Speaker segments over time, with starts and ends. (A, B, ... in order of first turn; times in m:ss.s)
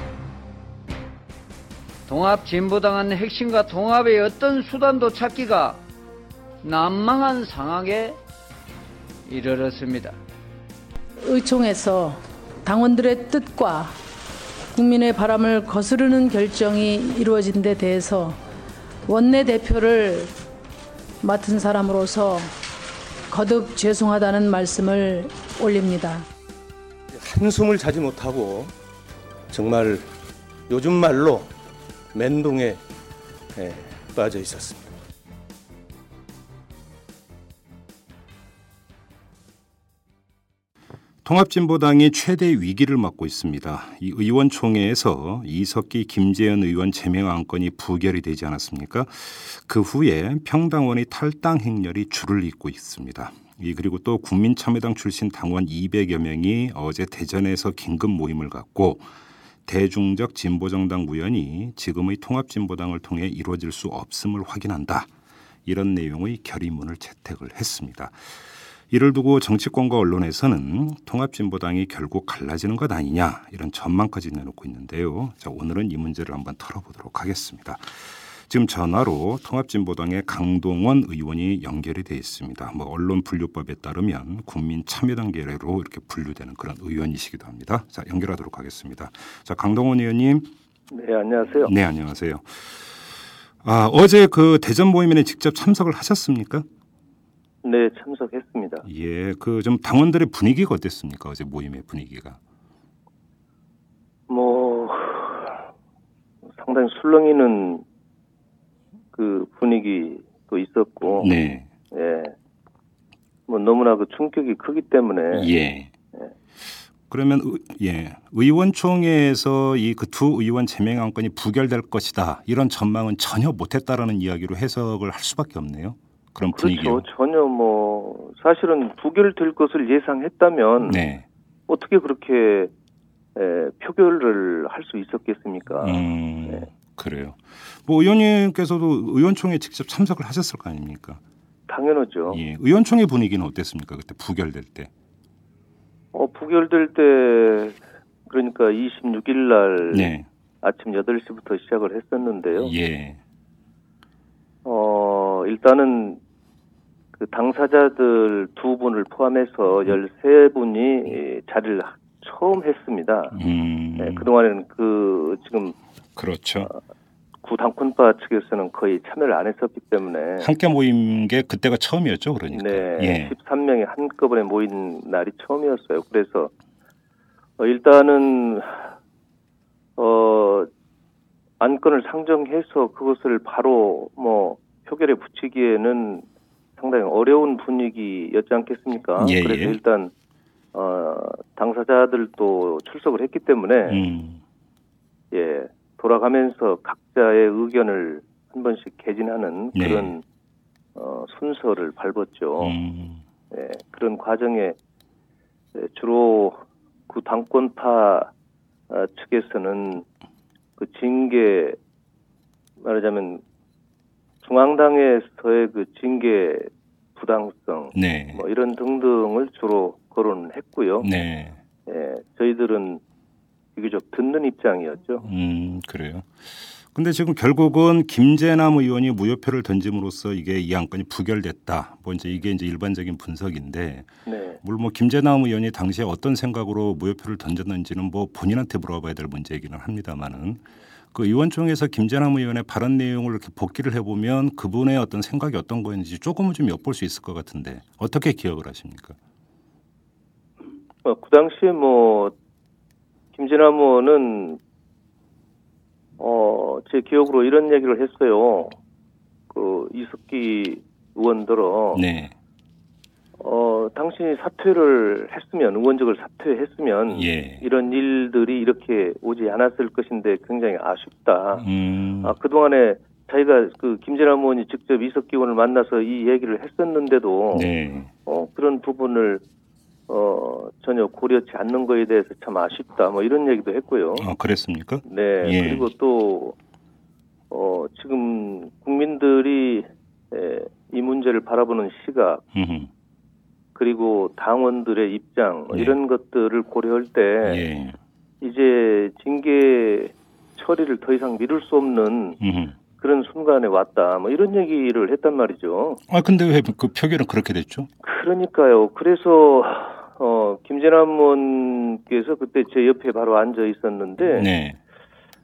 0:02.1-0:05.8 A
0:06.6-0:08.2 A
0:09.3-0:10.2 A
0:11.2-0:13.9 B
0:14.7-0:18.4 B
0:19.1-0:20.3 B
0:21.2-0:22.5 B
0:23.3-0:26.2 B
0:27.2-0:28.7 C
0:29.5-0:30.1 C
0:30.7-0:31.5 C
0:32.1-0:32.8 C
0:33.6-0:34.9 C
0:41.2-0:59.0 D
0:59.6-1:05.1 D
1:05.6-1:08.2 D
1:08.9-1:30.5 D
1:30.9-1:31.7 E
1:31.6-1:32.8 D
1:33.6-1:36.6 D
1:37.6-1:38.8 E
1:38.8-1:42.4 D
1:44.3-1:45.6 E
1:46.6-1:47.8 E
1:49.1-1:51.3 E
1:51.1-1:51.7 D
1:51.9-1:52.3 E
1:53.5-1:55.5 E
1:55.3-1:55.9 D
1:57.1-2:07.0 D
2:06.5-2:11.0 E
2:10.8-2:11.2 D
2:11.7-2:12.7 E
2:13.3-2:16.7 E
2:15.8-2:21.2 D
2:21.7-2:22.4 E
2:22.3-2:24.9 D
2:26.1-2:30.1 E
2:29.9-2:30.3 D
2:30.6-2:32.7 E
2:32.6-2:33.2 D
2:34.6-2:36.2 E
2:37.2-2:43.4 E
2:43.3-2:44.3 D
2:44.0-2:45.8 E
2:46.2-2:46.7 D
2:47.4-2:50.5 E
2:50.4-2:53.3 D
2:52.5-2:56.5 E
2:57.6-2:58.9 E
3:00.0-3:00.7 E
3:01.6-3:06.2 E
3:06.8-3:10.1 E
3:09.2-3:09.8 D
3:10.7-3:14.0 E
3:13.9-3:14.4 D
3:15.3-3:20.2 E
3:19.7-3:20.1 D
3:20.9-3:22.8 E
3:22.6-3:23.2 D
3:23.5-3:24.8 E
3:25.7-3:28.3 E
3:28.9-3:30.0 E
3:30.8-3:31.8 E
3:32.8-3:33.4 E
3:34.4-3:41.1 E
3:37.9-3:38.4 D
3:41.0-3:41.6 D
3:41.8-3:43.0 E
3:43.8-3:45.2 E
3:45.2-3:46.3 D
3:46.9-3:54.1 D
3:54.2-3:54.6 E
3:54.6-4:09.2 D
4:11.0-4:12.3 E
4:13.3-4:14.6 E
4:16.2-4:18.8 E
4:19.5-4:22.0 E
4:21.9-4:22.3 D
4:23.4-4:31.6 E
4:27.1-4:27.6 D
4:31.6-4:32.3 D
4:32.2-4:37.7 E
4:37.5-4:38.1 D
4:38.2-4:39.4 E
4:40.1-4:44.3 E
4:44.2-4:45.8 D
4:45.0-4:46.6 E
4:47.5-4:52.4 E
4:52.5-4:52.9 D
4:53.7-4:57.6 E
4:55.7-4:56.0 D
4:57.4-4:58.0 D
4:58.4-5:02.4 E
5:02.4-5:02.7 D
5:03.0-5:06.0 E
5:06.1-5:07.9 D
5:08.0-5:14.5 E
5:14.2-5:14.8 D